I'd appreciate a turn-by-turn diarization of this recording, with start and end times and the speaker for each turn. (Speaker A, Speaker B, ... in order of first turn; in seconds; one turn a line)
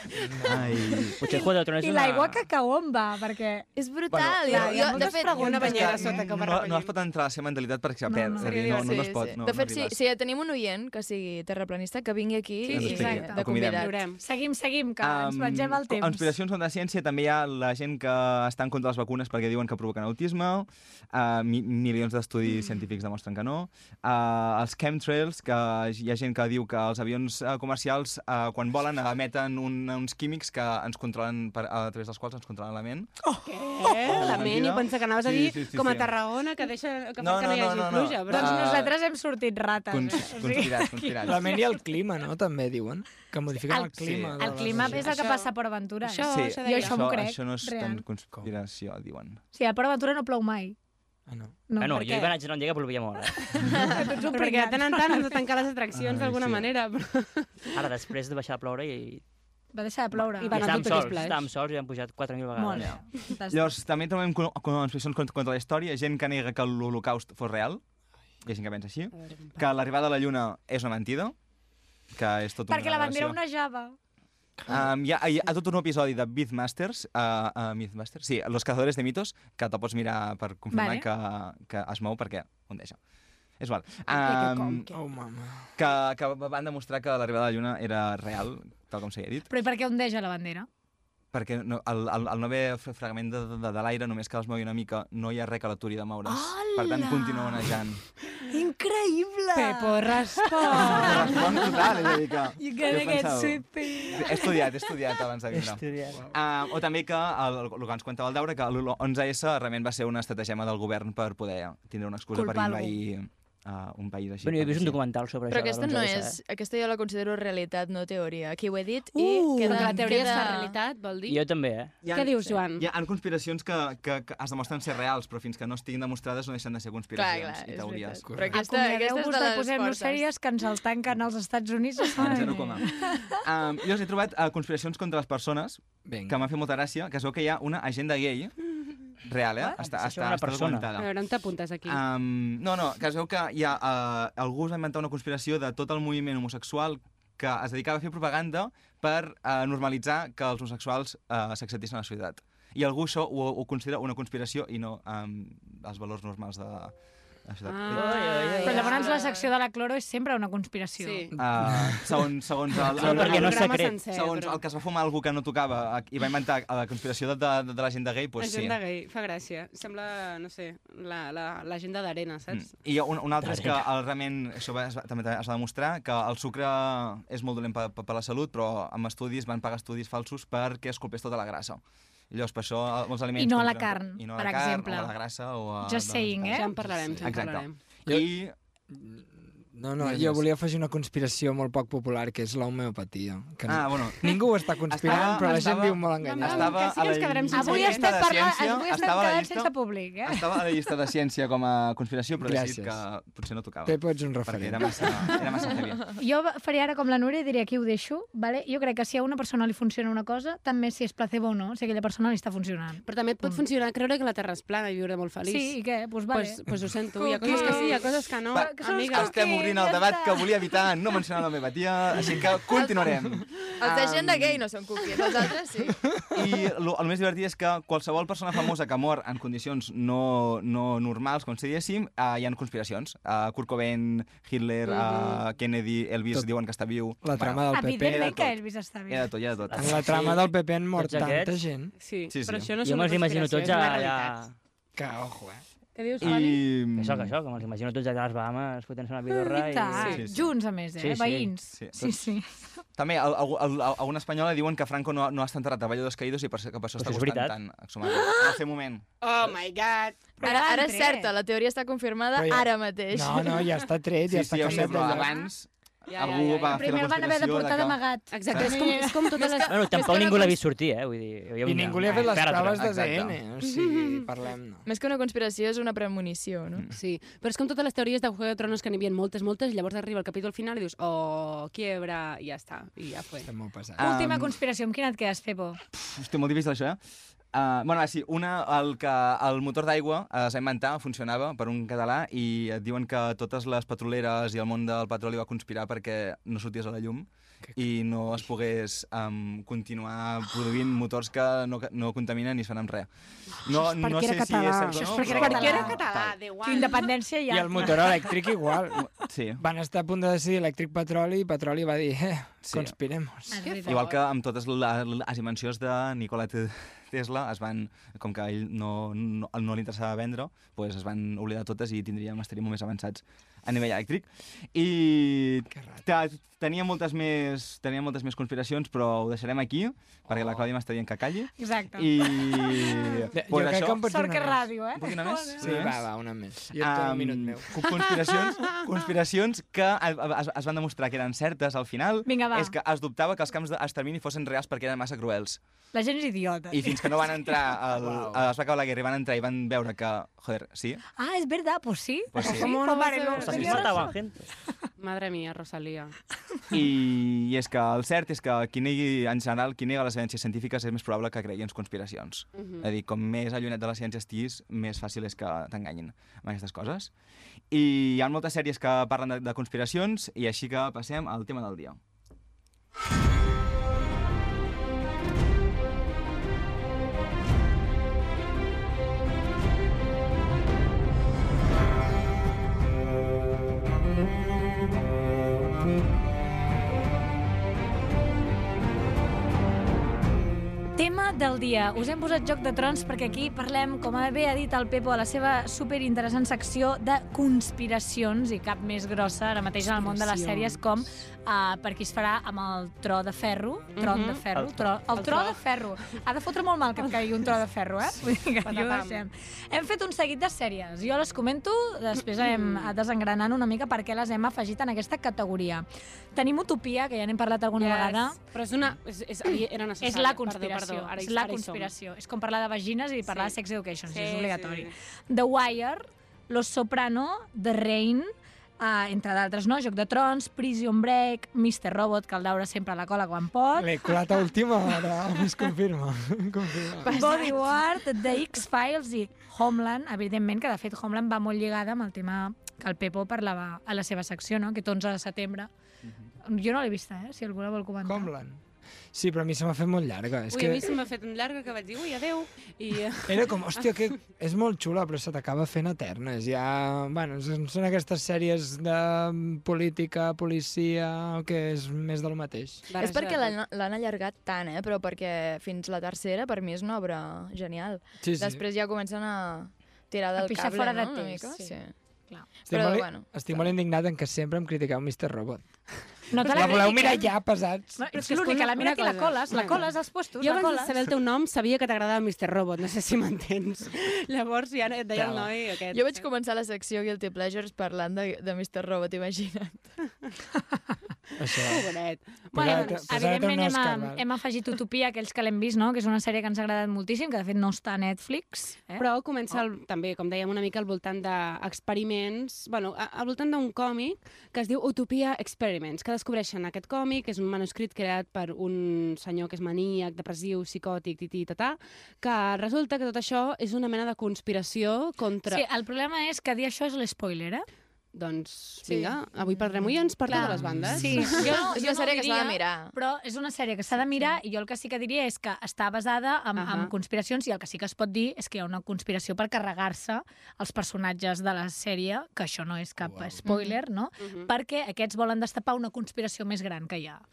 Speaker A: 0.2-0.8
Speaker B: 0.4-1.2
Speaker C: 1.2-2.4
Speaker D: 1.3-3.7
Speaker E: 3.8-6.1
Speaker B: 4.1-4.8
Speaker D: 4.4-6.2
Speaker F: 4.5-6.9
Speaker B: 5.5-10.0
Speaker D: 8.1-8.5
Speaker F: 8.4-9.0
Speaker E: 8.5-14.0
Speaker F: 12.6-14.2
Speaker B: 12.7-13.8
Speaker D: 12.8-16.3
Speaker B: 15.0-33.1
Speaker D: 33.3-34.2
Speaker F: 33.4-38.6
Speaker B: 34.0-36.1
Speaker B: 37.2-38.9
Speaker D: 38.3-41.6
Speaker B: 39.9-41.5
Speaker A: 41.2-45.1
Speaker D: 43.7-48.0
Speaker B: 43.9-45.0
Speaker F: 44.9-45.5
Speaker F: 46.0-47.1
Speaker B: 46.3-49.4
Speaker D: 49.5-50.8
Speaker A: 51.3-51.5
Speaker D: 51.7-52.4
Speaker C: 51.8-53.6
Speaker D: 53.6-55.4
Speaker F: 53.9-57.7
Speaker B: 56.0-56.7
Speaker C: 57.7-59.2
Speaker D: 59.7-61.0
Speaker F: 60.4-61.5
Speaker C: 60.4-63.0
Speaker D: 62.5-63.6
Speaker B: 62.8-67.8
Speaker B: 68.4-71.3
Speaker F: 69.2-69.6
Speaker B: 72.1-73.4
Speaker D: 72.7-74.0
Speaker B: 74.7-83.0
Speaker D: 80.7-81.0
Speaker B: 83.6-84.9
Speaker F: 84.1-84.9
Speaker A: 84.9-85.7
Speaker B: 85.8-89.5
Speaker D: 89.5-90.7
Speaker B: 91.3-98.0
Speaker D: 96.2-97.7
Speaker D: 98.5-101.6
Speaker F: 99.5-101.7
Speaker B: 100.8-115.0
Speaker D: 102.6-104.9
Speaker C: 105.5-106.2
Speaker D: 112.3-113.0
Speaker C: 114.4-116.4
Speaker E: 115.5-120.7
Speaker D: 119.1-120.7
Speaker F: 119.6-121.4
Speaker C: 121.3-122.0
Speaker B: 122.0-128.5
Speaker F: 122.1-122.8
Speaker E: 127.1-130.2
Speaker A: 128.2-128.5
Speaker D: 128.5-133.3
Speaker B: 132.1-138.5
Speaker A: 136.1-136.4
Speaker B: 139.2-141.1
Speaker C: 139.8-140.9
Speaker F: 140.9-142.0
Speaker B: 141.8-156.9
Speaker B: 157.4-158.2
Speaker F: 157.7-159.5
Speaker C: 157.9-159.0
Speaker D: 158.6-161.3
Speaker F: 161.0-161.3
Speaker B: 161.4-168.8
Speaker A: 161.5-162.0
Speaker C: 162.8-164.0
Speaker F: 162.9-164.6
Speaker F: 168.4-172.7
Speaker B: 172.5-188.5
Speaker C: 173.4-173.9
Speaker D: 183.3-185.1
Speaker D: 185.8-186.7
Speaker F: 186.5-187.8
Speaker A: 188.9-196.8
Speaker B: 190.0-190.4
Speaker B: 193.7-206.1
Speaker F: 196.2-198.2
Speaker D: 196.5-200.6
Speaker A: 202.4-203.0
Speaker A: 203.8-205.3
Speaker D: 206.2-213.6
Speaker F: 213.1-215.8
Speaker D: 215.4-216.6
Speaker F: 216.3-219.3
Speaker D: 217.2-220.5
Speaker E: 217.3-218.1
Speaker B: 218.5-224.6
Speaker E: 222.8-223.0
Speaker E: 223.8-226.2
Speaker B: 226.3-238.6
Speaker F: 234.8-235.4
Speaker A: 237.2-238.5
Speaker D: 237.7-239.3
Speaker B: 239.1-240.4
Speaker C: 239.7-241.6
Speaker A: 239.7-241.9
Speaker F: 242.0-244.4
Speaker B: 242.3-242.7
Speaker C: 242.7-244.5
Speaker A: 244.9-245.6
Speaker F: 245.9-246.6
Speaker B: 246.2-247.3
Speaker C: 246.9-250.2
Speaker D: 249.3-252.6
Speaker F: 249.8-250.2
Speaker B: 250.1-250.5
Speaker C: 251.0-251.5
Speaker B: 251.7-252.3
Speaker B: 252.9-259.0
Speaker C: 257.0-257.6
Speaker D: 258.0-258.5
Speaker F: 259.2-260.2
Speaker D: 260.4-261.3
Speaker E: 260.4-263.7
Speaker A: 262.3-265.3
Speaker B: 264.3-268.7
Speaker F: 266.1-266.8
Speaker D: 266.7-269.3
Speaker F: 268.3-270.6
Speaker E: 269.4-270.5
Speaker C: 269.7-272.9
Speaker A: 271.6-274.8
Speaker B: 272.7-273.4
Speaker F: 273.7-274.2
Speaker E: 274.8-276.9
Speaker F: 276.9-283.5
Speaker A: 283.4-284.0
Speaker B: 284.0-284.6
Speaker D: 284.0-285.8
Speaker B: 285.9-287.0
Speaker B: 287.5-303.1
Speaker B: 303.6-306.3
Speaker D: 303.8-306.0
Speaker F: 304.8-307.1
Speaker D: 306.6-308.6
Speaker A: 307.5-313.6
Speaker B: 309.2-309.6
Speaker B: 312.6-312.9
Speaker D: 313.5-314.0
Speaker F: 313.6-314.2
Speaker B: 313.8-334.0
Speaker A: 325.7-326.0
Speaker A: 330.3-330.6
Speaker D: 331.6-333.1
Speaker A: 333.3-334.7
Speaker D: 334.0-335.6
Speaker B: 334.9-336.1
Speaker A: 335.6-338.0
Speaker B: 336.7-345.6
Speaker D: 342.2-342.7
Speaker D: 345.9-347.5
Speaker B: 346.7-351.0
Speaker A: 348.1-348.4
Speaker D: 351.2-354.2
Speaker B: 352.3-352.8
Speaker F: 352.4-354.0
Speaker C: 353.4-354.4
Speaker F: 355.0-356.1
Speaker B: 356.7-367.1
Speaker F: 362.6-362.8
Speaker B: 367.7-372.0
Speaker D: 390.9-415.8
Speaker F: 399.8-400.8
Speaker F: 404.0-404.4
Speaker C: 404.5-405.2
Speaker F: 405.1-405.6
Speaker F: 408.6-409.2
Speaker F: 412.4-412.9
Speaker D: 416.3-418.4
Speaker F: 417.8-421.9
Speaker D: 420.0-434.1
Speaker F: 423.2-423.5
Speaker F: 424.1-424.9
Speaker A: 433.8-437.1
Speaker E: 437.0-437.8
Speaker D: 437.1-445.7
Speaker D: 446.4-448.3
Speaker A: 448.0-448.6
Speaker A: 449.1-450.8
Speaker F: 450.5-453.9
Speaker A: 453.2-462.9
Speaker F: 462.9-463.6
Speaker E: 462.9-471.9
Speaker A: 468.2-468.6
Speaker D: 470.4-471.8
Speaker E: 472.6-473.7
Speaker A: 472.7-475.7
Speaker D: 476.3-477.3
Speaker A: 476.4-478.2
Speaker D: 478.0-480.9
Speaker F: 478.1-486.2
Speaker E: 485.9-490.0
Speaker A: 491.4-491.9
Speaker F: 491.5-493.1
Speaker A: 492.5-494.2
Speaker D: 492.5-499.6
Speaker F: 499.0-515.6
Speaker D: 515.5-517.6
Speaker F: 518.1-521.7
Speaker E: 518.9-519.1
Speaker D: 520.2-537.2
Speaker A: 521.0-521.3
Speaker E: 521.3-522.9
Speaker F: 526.6-526.9
Speaker A: 533.0-533.4
Speaker E: 533.4-533.8
Speaker F: 534.2-534.5